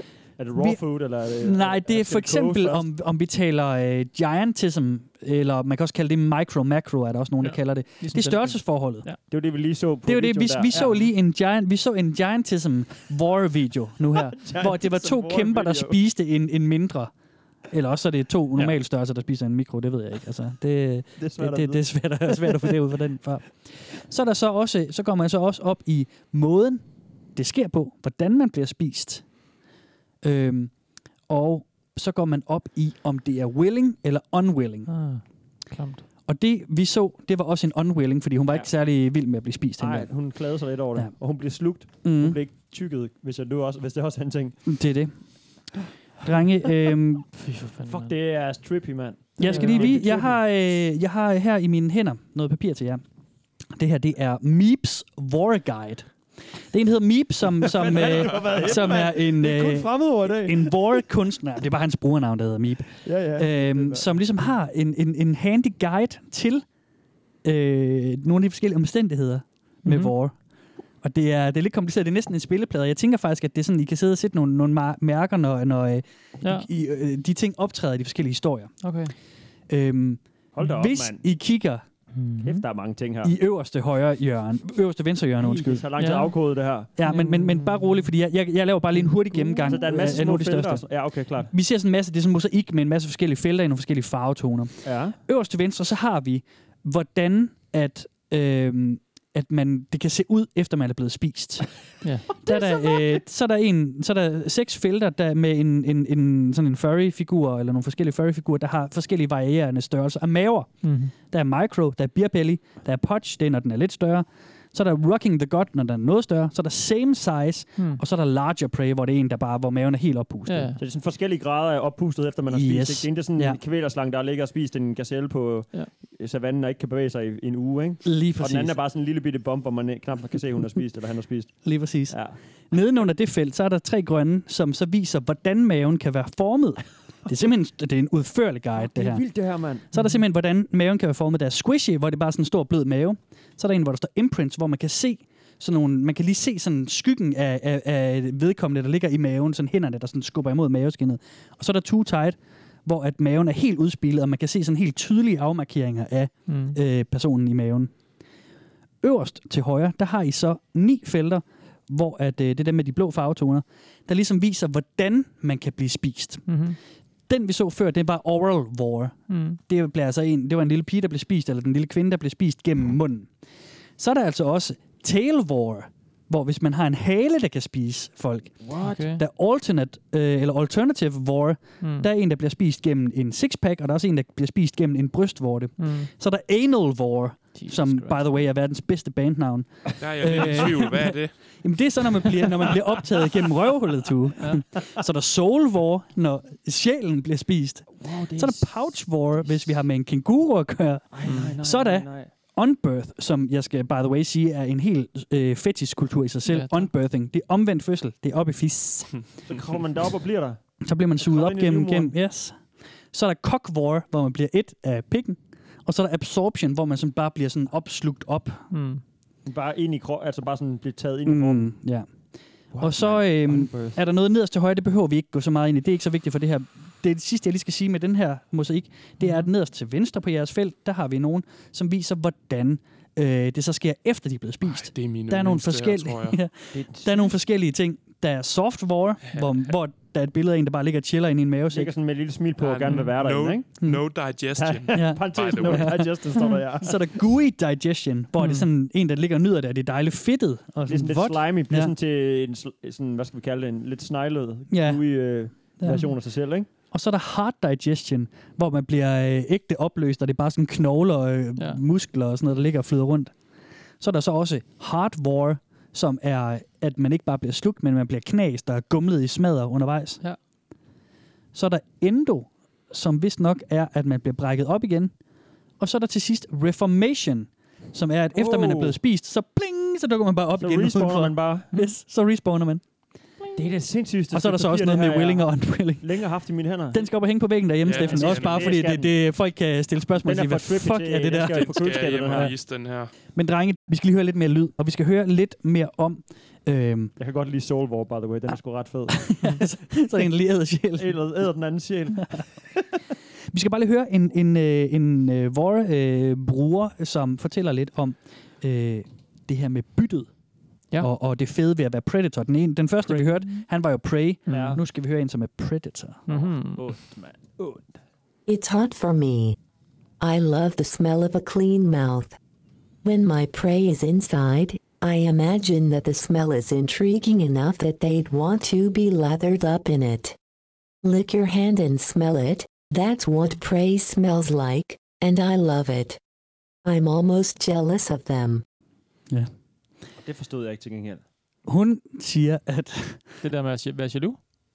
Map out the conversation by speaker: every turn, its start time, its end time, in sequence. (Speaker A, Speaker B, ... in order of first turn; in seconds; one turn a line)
Speaker A: 0.4-2.8
Speaker B: 0.5-9.1
Speaker C: 7.4-9.2
Speaker A: 9.3-11.1
Speaker B: 10.1-17.1
Speaker A: 14.2-15.9
Speaker B: 17.7-29.2
Speaker A: 21.2-22.6
Speaker B: 30.2-30.7
Speaker B: 31.3-34.9
Speaker C: 34.9-36.0
Speaker B: 36.3-40.4
Speaker A: 39.8-44.6
Speaker B: 40.9-42.4
Speaker B: 44.6-45.1
Speaker B: 46.2-47.3
Speaker C: 47.3-48.1
Speaker A: 47.8-50.4
Speaker B: 49.4-53.0
Speaker C: 49.4-50.1
Speaker B: 53.7-66.6
Speaker A: 57.6-60.8
Speaker A: 63.0-64.3
Speaker B: 67.4-70.4
Speaker C: 69.8-70.1
Speaker B: 71.0-78.9
Speaker C: 76.4-76.7
Speaker C: 78.8-79.1
Speaker B: 79.7-81.8
Speaker A: 80.5-81.2
Speaker C: 82.1-82.6
Speaker A: 82.4-83.3
Speaker B: 83.2-85.9
Speaker A: 85.4-86.9
Speaker C: 86.0-86.3
Speaker B: 87.0-90.9
Speaker C: 87.0-88.1
Speaker C: 89.0-90.2
Speaker A: 89.6-91.5
Speaker B: 91.5-101.7
Speaker A: 94.8-95.2
Speaker C: 102.0-102.3
Speaker B: 102.3-120.7
Speaker A: 102.5-102.9
Speaker C: 110.8-111.1
Speaker C: 120.5-120.8
Speaker A: 120.8-132.3
Speaker B: 122.5-123.6
Speaker B: 128.0-128.8
Speaker B: 131.6-157.9
Speaker A: 138.8-139.9
Speaker C: 156.5-156.8
Speaker B: 159.0-166.5
Speaker C: 166.5-166.8
Speaker B: 167.3-173.3
Speaker C: 169.3-169.6
Speaker B: 174.0-209.2
Speaker A: 178.7-179.0
Speaker C: 178.8-179.2
Speaker C: 181.8-182.1
Speaker C: 185.8-186.1
Speaker C: 187.5-188.4
Speaker D: 190.0-191.3
Speaker A: 198.0-198.7
Speaker A: 201.1-202.3
Speaker C: 201.2-201.5
Speaker C: 206.5-206.9
Speaker A: 209.4-210.6
Speaker B: 210.8-212.6
Speaker A: 211.2-212.1
Speaker B: 213.1-218.7
Speaker C: 218.7-219.0
Speaker A: 219.4-221.7
Speaker B: 221.2-222.1
Speaker A: 222.7-224.0
Speaker B: 222.8-241.9
Speaker C: 229.2-229.5
Speaker D: 234.6-236.4
Speaker A: 236.7-237.3
Speaker A: 241.7-243.7
Speaker C: 242.6-243.1
Speaker D: 242.9-246.0
Speaker A: 244.6-247.0
Speaker B: 244.9-251.9
Speaker C: 248.4-248.7
Speaker A: 250.9-256.7
Speaker B: 254.7-256.1
Speaker B: 256.9-263.3
Speaker B: 264.0-270.2
Speaker B: 271.5-275.1
Speaker B: 275.8-282.8
Speaker A: 278.3-278.9
Speaker A: 280.6-281.7
Speaker A: 283.6-287.1
Speaker B: 284.3-286.2
Speaker B: 286.9-292.5
Speaker D: 287.9-288.8
Speaker A: 288.0-289.1
Speaker A: 290.2-292.5
Speaker D: 291.5-293.1
Speaker B: 293.3-297.1
Speaker A: 297.2-299.4
Speaker B: 299.1-301.2
Speaker A: 301.0-302.8
Speaker B: 303.5-310.3
Speaker B: 311.0-316.2
Speaker C: 313.1-313.5
Speaker C: 314.5-314.8
Speaker A: 314.5-314.8
Speaker C: 316.3-316.9
Speaker A: 316.3-317.9
Speaker E: 318.5-319.6
Speaker E: 320.2-322.4
Speaker E: 323.0-330.4
Speaker E: 331.0-336.2
Speaker E: 336.8-338.6
Speaker A: 340.2-341.2
Speaker B: 341.6-343.2
Speaker C: 343.4-344.4